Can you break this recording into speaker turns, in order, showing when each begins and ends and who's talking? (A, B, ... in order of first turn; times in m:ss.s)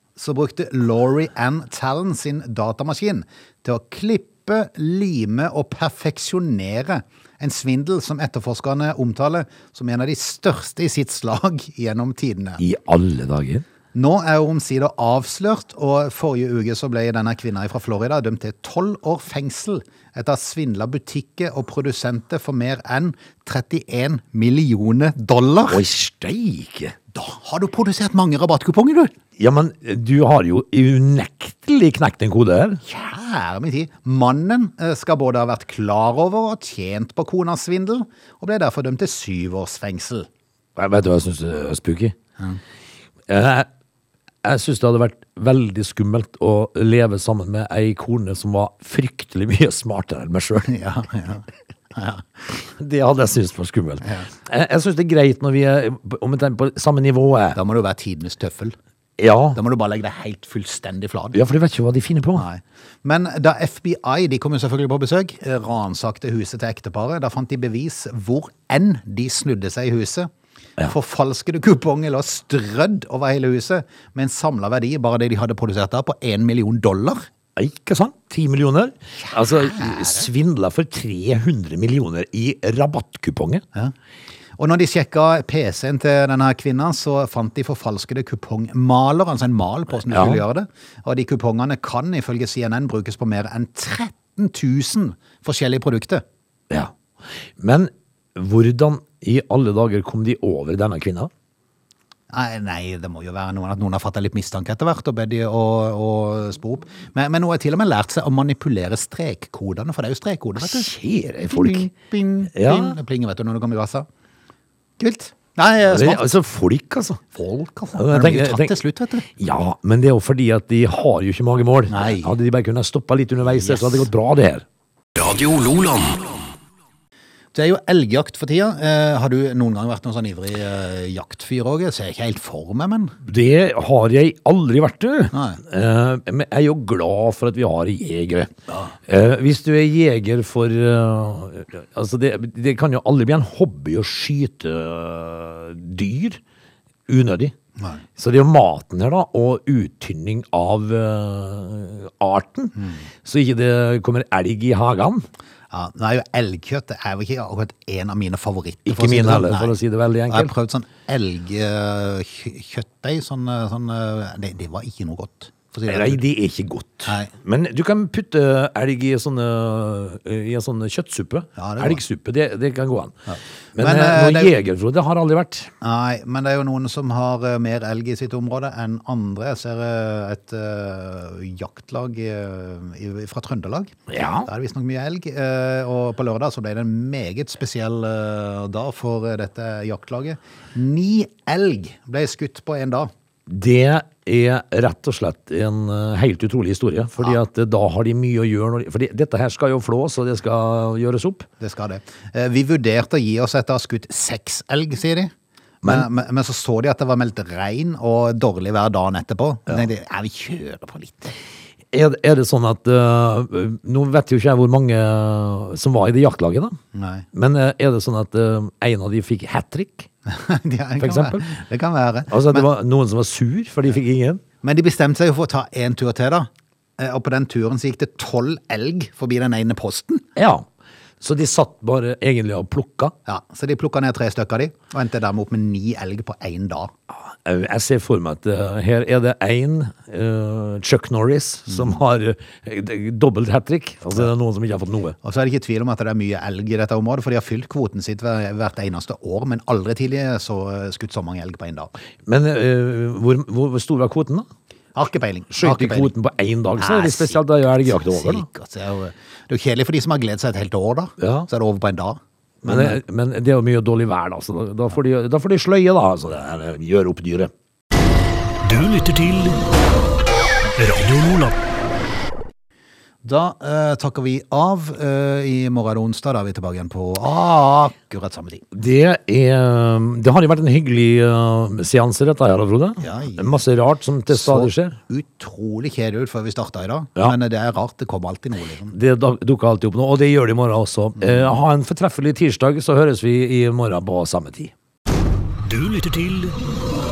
0:00.2-0:12.6 A
0:12.6-0:13.6 B
0:13.9-0:25.8 A
0:25.7-0:27.0 B
0:27.1-0:29.1 A
0:29.4-0:32.8 B
0:32.8-0:40.3 A
0:40.8-0:42.1 B
0:43.3-0:43.7 B
0:44.4-0:50.7 B
0:50.6-0:52.2 A
0:52.5-0:57.6 B
0:57.5-0:58.7 A
0:59.2-0:59.6 B
0:59.5-1:01.4 A
1:01.3-1:02.4 B
1:02.4-1:17.2 A
1:17.6-1:23.6 B
1:19.4-1:20.2 A
1:24.6-1:36.2 A
1:30.1-1:30.4 B
1:37.6-1:41.3 B
1:42.3-1:50.9 A
1:50.6-1:51.9 B
1:51.4-1:54.0 A
1:52.5-1:53.0 B
1:55.0-1:56.3 A
1:55.9-1:57.2 B
1:57.3-1:59.3 A
1:58.0-1:58.8 B
1:59.3-2:04.6 B
2:01.9-2:02.3 A
2:03.4-2:04.1 A
2:05.2-2:06.4 C
2:07.5-2:13.2 A
2:13.2-2:18.5 B
2:15.3-2:15.6 A
2:18.7-2:18.9 A
2:19.1-2:26.4 B
2:27.1-2:27.5 B
2:27.8-2:28.0 A
2:28.2-2:35.2 B
2:35.7-2:46.2 A
2:38.8-2:40.5 B
2:45.9-2:53.2 B
2:47.0-2:47.3 A
2:51.6-2:52.0 A
2:53.3-2:54.5 A
2:53.7-2:55.7 B
2:55.8-3:13.1 A
3:04.1-3:04.5 B
3:13.5-3:21.5 B
3:21.6-3:31.3 A
3:31.9-3:36.8 B
3:36.9-3:37.2 A
3:37.3-3:40.1 B
3:40.2-3:42.7 A
3:41.0-3:41.5 B
3:42.3-3:44.4 B
3:44.6-3:50.2 A
3:50.4-3:50.7 B
3:51.2-3:53.1 B
3:53.2-3:56.9 A
3:57.3-4:05.2 B
4:05.2-4:11.9 A
4:12.2-4:14.5 B
4:14.9-4:16.1 A
4:15.5-4:18.4 B
4:16.8-4:23.0 A
4:21.2-4:21.5 B
4:22.6-4:27.5 B
4:28.6-4:29.6 C
4:30.8-4:31.6 C
4:33.2-4:38.6 A
4:38.7-4:45.0 B
4:43.0-4:43.6 A
4:44.3-4:48.9 A
4:48.9-4:54.7 B
4:51.2-4:51.5 A
4:55.6-4:56.6 C